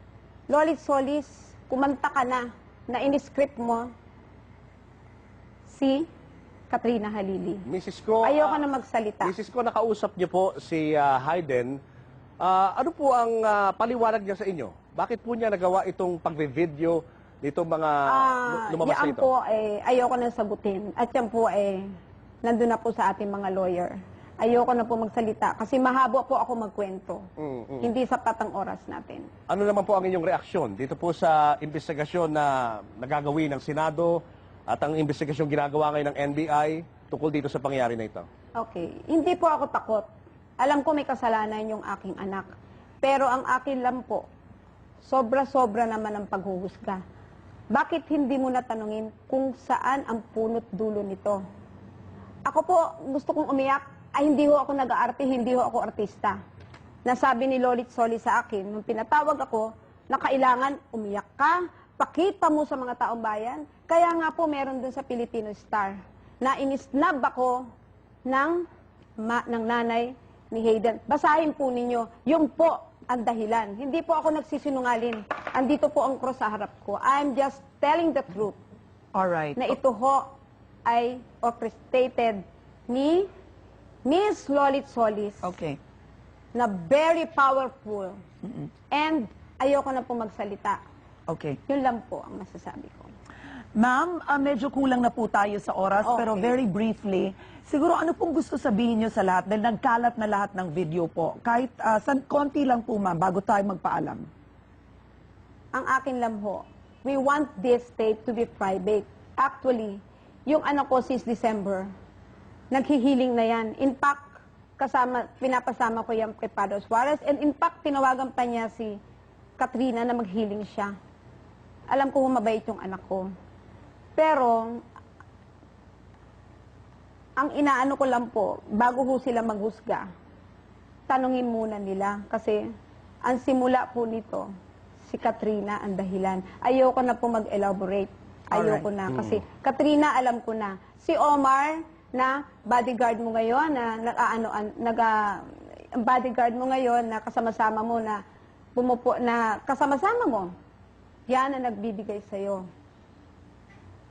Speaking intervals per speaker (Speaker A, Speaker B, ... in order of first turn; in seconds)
Speaker A: 0.5-3.9, 5.7-6.1, 6.7-7.7, 8.2-9.3, 18.1-21.8, 22.4-27.2, 27.8-29.3, 38.6-40.1, 40.6-42.5, 43.0-44.3, 45.0-47.0, 47.7-51.4, 52.5-56.4, 57.0-67.6, 68.3-68.6, 69.2-78.6, 79.6-80.3, 80.9-83.3, 84.0-85.5, 86.5-88.2, 88.9-90.8, 91.7-93.1, 105.7-111.9, 112.7-119.0, 119.6-120.9, 121.9-123.3, 124.2-124.8, 127.4-130.1, 131.1-132.6, 133.2-134.5, 135.1-148.2, 148.8-150.5, 151.3-152.7
Speaker B: 7.7-8.6, 9.2-11.8, 12.4-19.3, 27.4-27.9, 29.5-38.3
Speaker C: 79.2-79.7, 85.4-85.8, 91.3-91.6, 93.8-104.3, 138.6-138.8